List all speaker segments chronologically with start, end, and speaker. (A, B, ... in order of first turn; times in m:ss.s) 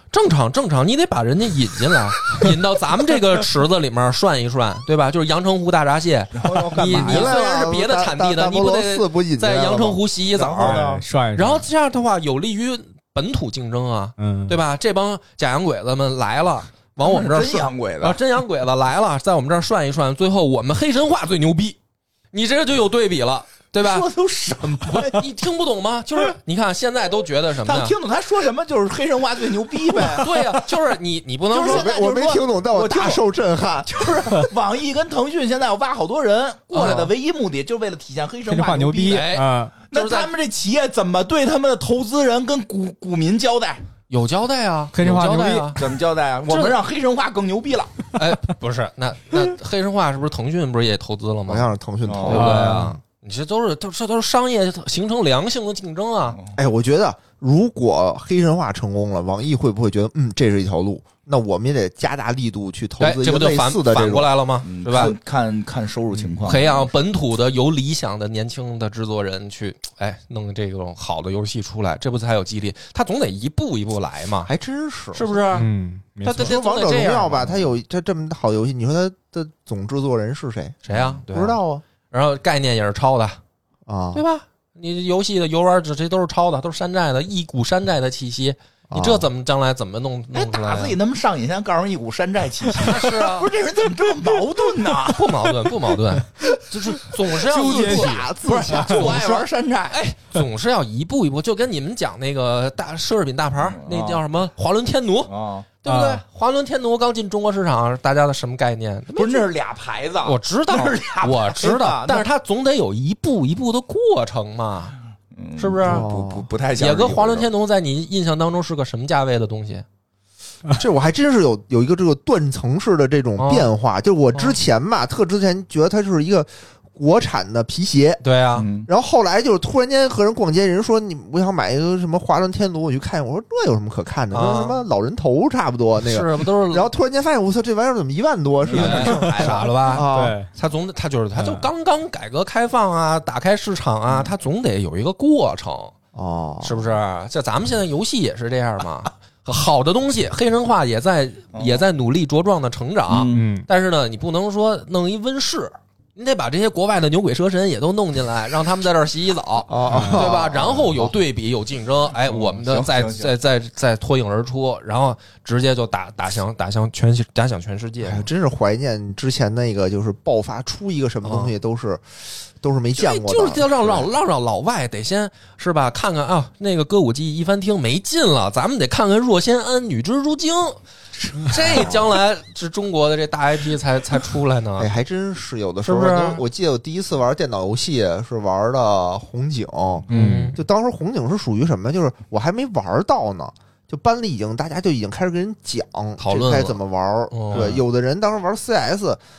0:00.1-0:21.8 A
0:06.3-0:07.4 B
0:06.5-0:10.0 C
0:10.3-0:11.0 B
0:10.6-0:11.7 D
0:14.2-0:14.6 D
0:17.0-0:18.2 B
0:22.3-0:24.1 A
0:23.8-0:25.3 B
0:24.8-0:28.0 A
0:27.6-0:30.5 B
0:29.9-0:31.9 A
0:31.5-0:33.2 B
0:31.5-0:34.5 C
0:33.8-0:39.3 B
0:36.7-0:37.1 A
0:38.5-0:39.7 D
0:39.1-0:40.3 A
0:39.9-0:43.8 B
0:44.1-0:45.9 A
0:44.9-0:45.7 D
0:45.8-0:48.0 B
0:46.5-0:46.8 A
0:48.2-0:51.7 A
0:51.5-0:52.7 C
0:52.1-0:52.5 B
0:52.3-0:56.4 A
0:52.3-0:53.0 D
0:56.6-1:04.3 C
1:03.0-1:05.2 A
1:04.6-1:06.9 B
1:06.4-1:14.5 A
1:14.5-1:15.4 C
1:15.1-1:15.7 A
1:15.5-1:16.6 D
1:16.2-1:20.8 C
1:16.2-1:17.7 A
1:20.8-1:21.6 A
1:20.9-1:21.2 B
1:21.3-1:21.8 C
1:22.1-1:23.4 A
1:23.9-1:24.2 C
1:24.1-1:31.0 A
1:28.9-1:29.3 C
1:30.3-1:35.5 B
1:32.8-1:33.5 A
1:35.0-1:45.3 A
1:37.4-1:39.4 C
1:37.6-1:38.3 D
1:38.7-1:40.0 B
1:43.6-1:44.2 B
1:45.3-1:45.7 B
1:45.8-1:49.5 A
1:45.9-1:46.2 D
1:49.2-1:52.3 B
1:50.2-1:55.0 A
1:55.4-1:57.5 B
1:55.6-1:56.1 A
1:55.8-1:56.5 C
1:56.8-1:59.8 A
2:00.7-2:08.2 C
2:03.4-2:03.7 A
2:08.2-2:08.7 A
2:08.6-2:08.9 B
2:08.9-2:20.4 C
2:14.3-2:14.8 A
2:16.0-2:16.9 A
2:18.6-2:19.8 B
2:18.7-2:25.9 A
2:20.1-2:20.5 D
2:21.4-2:21.7 D
2:26.2-2:26.9 C
2:26.6-2:48.3 A
2:31.5-2:31.9 B
2:33.1-2:33.5 B
2:33.3-2:33.7 D
2:39.7-2:41.2 C
2:39.9-2:40.3 D
2:42.3-2:43.3 B
2:48.0-2:54.1 C
2:51.2-2:51.5 A
2:52.9-3:04.9 A
3:01.7-3:02.0 C
3:04.8-3:19.2 C
3:05.8-3:06.4 A
3:10.1-3:10.5 B
3:10.1-3:10.6 A
3:10.1-3:10.6 D
3:16.2-3:16.8 A
3:17.3-3:17.8 A